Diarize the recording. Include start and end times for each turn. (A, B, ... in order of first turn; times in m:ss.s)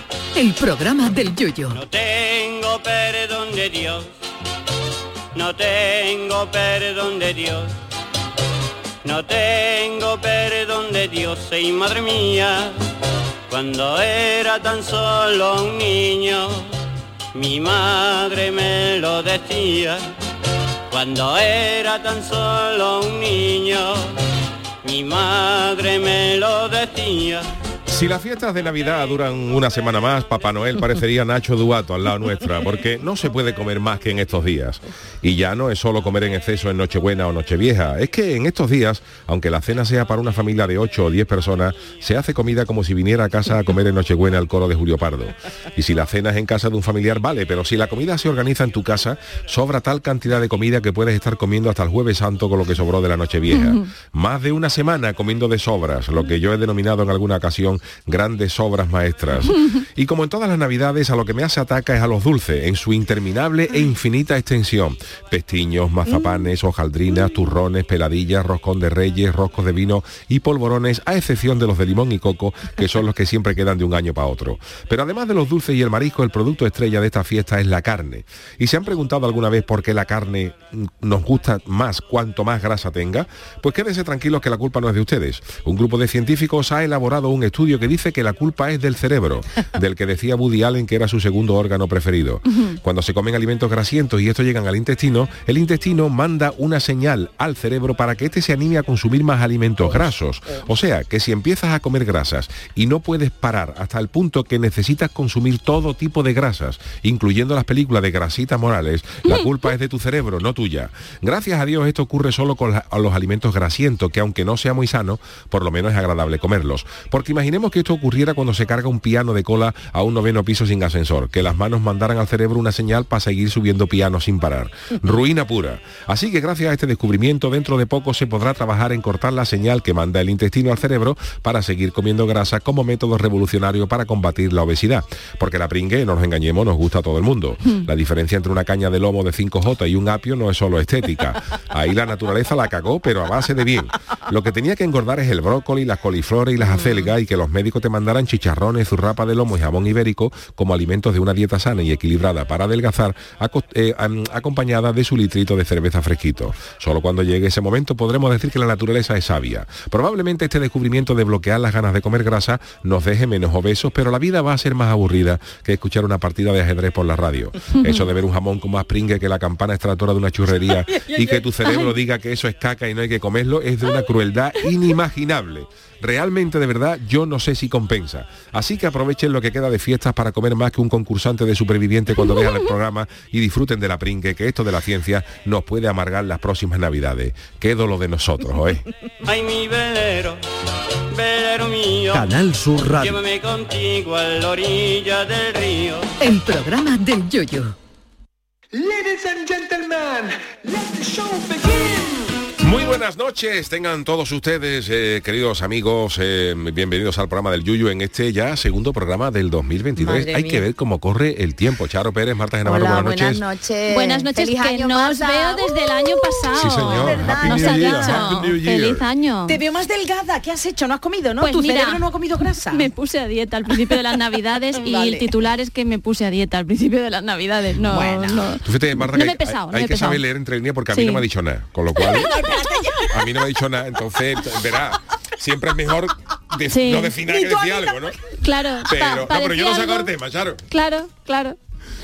0:00.4-0:01.8 A
0:01.7-0:04.1 B
0:05.3-0:07.7 B
0:09.0-0:12.8 B
0:13.5-0:16.7 B
0:17.3-0:20.0 B
0:20.9-0:24.1 B
0:24.8-0:27.5 B
0:27.9-3:08.8 C
0:53.5-0:53.8 D
0:59.5-0:59.8 D
1:32.5-1:32.8 D
2:26.7-2:27.0 E
2:47.8-2:48.1 D
2:50.9-2:51.3 E
2:51.6-2:51.9 D
3:02.3-3:02.6 D
3:09.2-3:10.4 B
3:11.1-3:12.3 B
3:12.1-3:13.1 A
3:12.3-3:13.0 F
3:12.9-3:16.1 B
3:16.2-3:17.7 A
3:18.7-3:22.4 F
3:22.6-3:33.4 C
3:30.0-3:30.6 E
3:32.6-3:38.3 E
3:33.9-3:39.6 D
3:36.5-3:39.0 C
3:39.4-3:42.9 E
3:41.4-3:42.0 D
3:42.7-3:50.2 D
3:44.7-3:45.3 E
3:47.8-3:48.5 E
3:48.6-3:52.3 C
3:50.9-3:51.2 D
3:52.0-3:53.1 E
3:52.1-3:52.6 D
3:53.0-3:58.2 C
3:56.7-3:57.2 D
3:57.2-3:58.0 E
3:58.4-4:00.1 D
3:58.8-4:00.6 C
4:00.7-4:01.6 D